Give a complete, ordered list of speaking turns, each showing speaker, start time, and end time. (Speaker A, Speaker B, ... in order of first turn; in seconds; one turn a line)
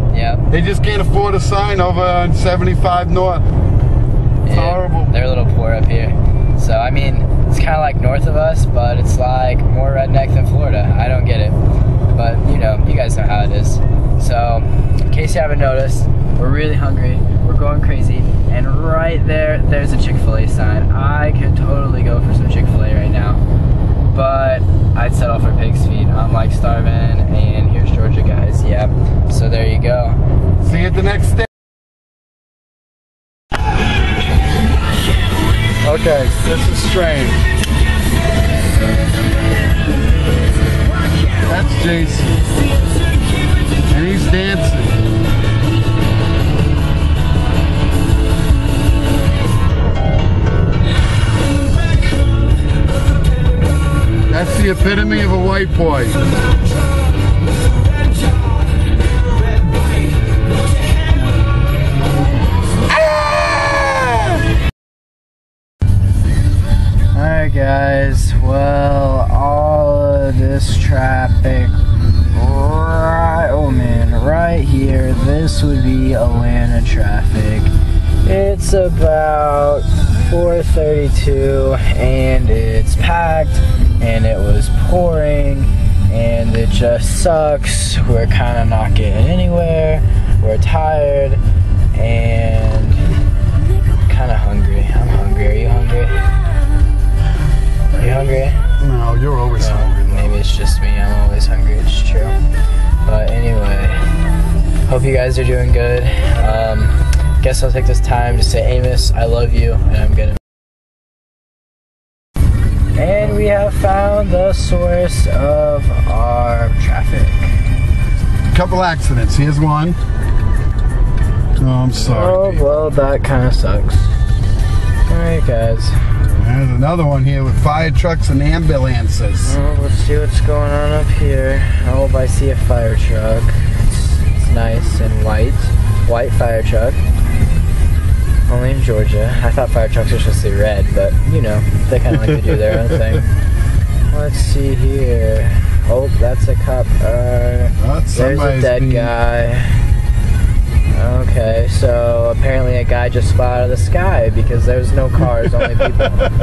Speaker A: 0.1-0.4
Speaker B: 0.5-3.5
Speaker A: 4.4-11.6
Speaker B: 4.5-5.2
Speaker A: 12.1-23.4
Speaker A: 24.1-30.2
Speaker B: 30.6-31.5
Speaker B: 35.8-37.4
Speaker B: 41.4-42.4
Speaker B: 43.9-45.0
Speaker B: 54.3-56.3
Speaker B: 63.3-63.9
Speaker A: 67.1-71.7
Speaker A: 72.3-77.7
Speaker A: 78.2-91.4
Speaker A: 91.9-93.0
Speaker A: 94.1-96.2
Speaker A: 98.0-98.6
Speaker B: 98.8-100.4
Speaker A: 99.6-102.4
Speaker A: 103.0-104.0
Speaker A: 104.9-110.4
Speaker A: 113.0-117.5
Speaker B: 118.5-120.0
Speaker B: 121.6-122.6
Speaker A: 122.0-124.1
Speaker A: 125.1-126.0
Speaker B: 126.4-129.6
Speaker A: 129.4-137.0
Speaker A: 138.5-143.3
Speaker A: 144.1-149.8
Speaker B: 147.8-149.1
Speaker A: 150.9-156.2